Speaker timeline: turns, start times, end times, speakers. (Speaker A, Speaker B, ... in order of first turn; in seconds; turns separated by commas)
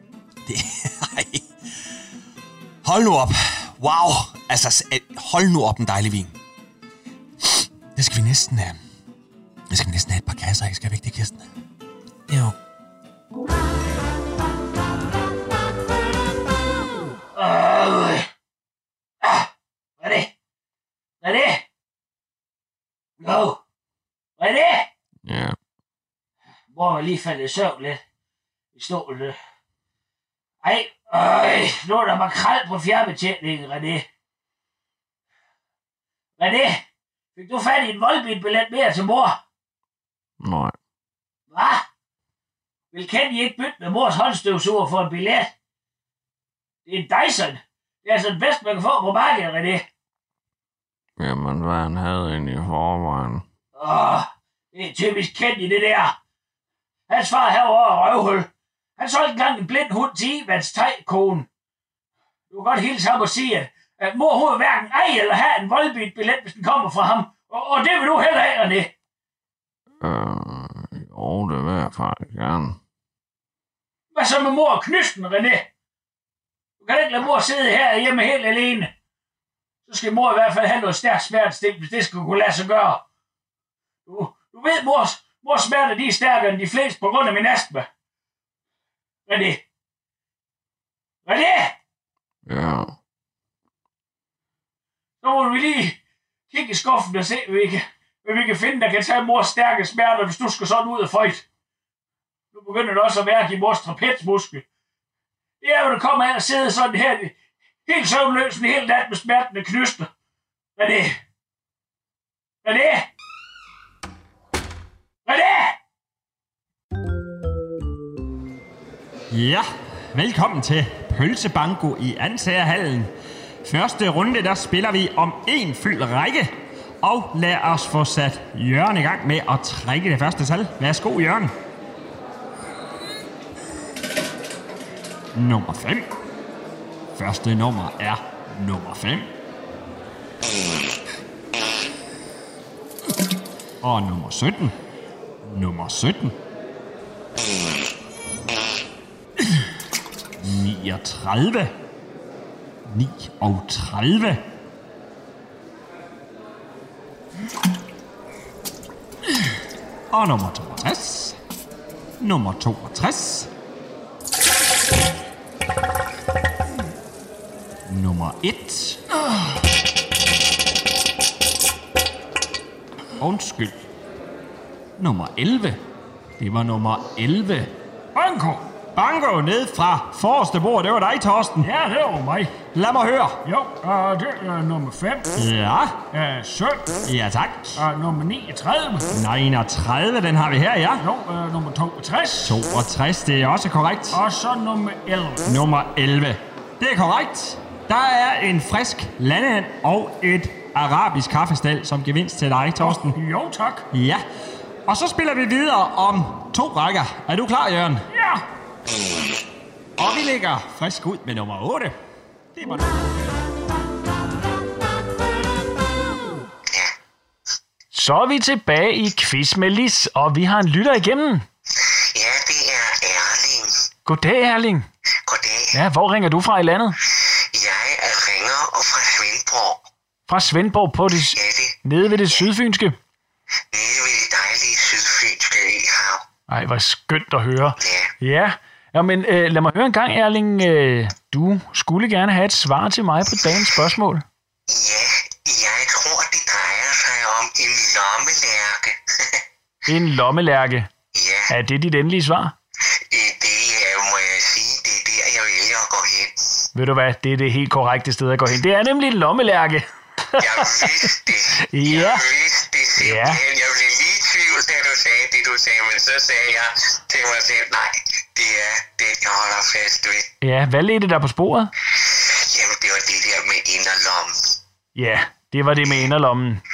Speaker A: 0.5-1.5, Speaker A: 2.8-6.4, Speaker A: 7.9-8.8, Speaker A: 9.7-11.5, Speaker B: 17.4-18.3, Speaker B: 19.2-19.5, Speaker B: 20.0-20.3, Speaker B: 21.2-21.6, Speaker B: 23.2-23.6, Speaker B: 24.4-24.9, Speaker C: 25.3-25.6, Speaker B: 26.7-28.0, Speaker B: 28.8-29.4, Speaker B: 30.6-34.1, Speaker B: 36.4-36.8, Speaker B: 37.4-39.4, Speaker C: 40.4-40.8, Speaker B: 41.5-41.9, Speaker B: 42.9-45.5, Speaker B: 46.9-49.9, Speaker C: 51.2-53.5, Speaker B: 53.8-56.2, Speaker B: 57.1-61.5, Speaker B: 62.5-68.9, Speaker C: 70.0-72.8, Speaker B: 74.1-75.7, Speaker B: 76.8-78.9, Speaker B: 79.9-83.0, Speaker B: 84.1-87.9, Speaker B: 89.3-89.6, Speaker B: 91.2-91.8, Speaker C: 92.5-92.9, Speaker B: 95.2-96.0, Speaker B: 96.5-101.5, Speaker B: 102.5-104.7, Speaker B: 105.6-110.1, Speaker B: 110.8-111.2, Speaker B: 112.6-113.1, Speaker B: 115.2-115.8, Speaker D: 119.3-123.1, Speaker D: 123.6-131.5, Speaker D: 135.3-136.1, Speaker D: 137.1-139.3, Speaker D: 143.8-144.7, Speaker D: 145.4-146.3, Speaker D: 150.4-151.7, Speaker D: 152.9-154.4, Speaker D: 160.1-161.4, Speaker D: 162.2-163.5, Speaker D: 167.9-169.0, Speaker D: 173.2-173.8, Speaker D: 175.0-175.8, Speaker D: 176.4-177.7, Speaker B: 178.2-178.6, Speaker D: 178.9-181.7, Speaker B: 181.6-182.6, Speaker D: 182.6-183.4, Speaker B: 183.4-185.3, Speaker D: 185.4-186.1, Speaker B: 186.1-187.0, Speaker D: 187.1-187.8, Speaker B: 187.8-189.1, Speaker D: 189.1-191.1, Speaker B: 191.0-192.6, Speaker D: 192.4-194.2, Speaker B: 194.1-195.4, Speaker D: 195.4-203.2, Speaker B: 202.8-203.8, Speaker D: 203.9-204.2, Speaker D: 204.9-208.1, Speaker D: 210.0-211.9, Speaker D: 212.5-213.0, Speaker E: 217.9-221.4, Speaker F: 222.1-223.7, Speaker E: 224.1-224.9, Speaker F: 225.3-225.7, Speaker E: 225.7-227.0, Speaker F: 227.5-229.8, Speaker E: 230.3-233.0, Speaker F: 231.3-232.5, Speaker F: 233.7-236.2, Speaker E: 236.5-244.2, Speaker F: 237.8-238.1, Speaker F: 244.7-249.3, Speaker E: 249.9-250.9, Speaker F: 251.1-251.5, Speaker E: 251.5-252.5, Speaker F: 253.1-256.4, Speaker E: 256.8-261.1, Speaker F: 260.4-270.2, Speaker E: 261.7-262.3, Speaker E: 263.0-263.4, Speaker E: 270.4-271.7, Speaker F: 272.2-274.3, Speaker E: 275.0-276.6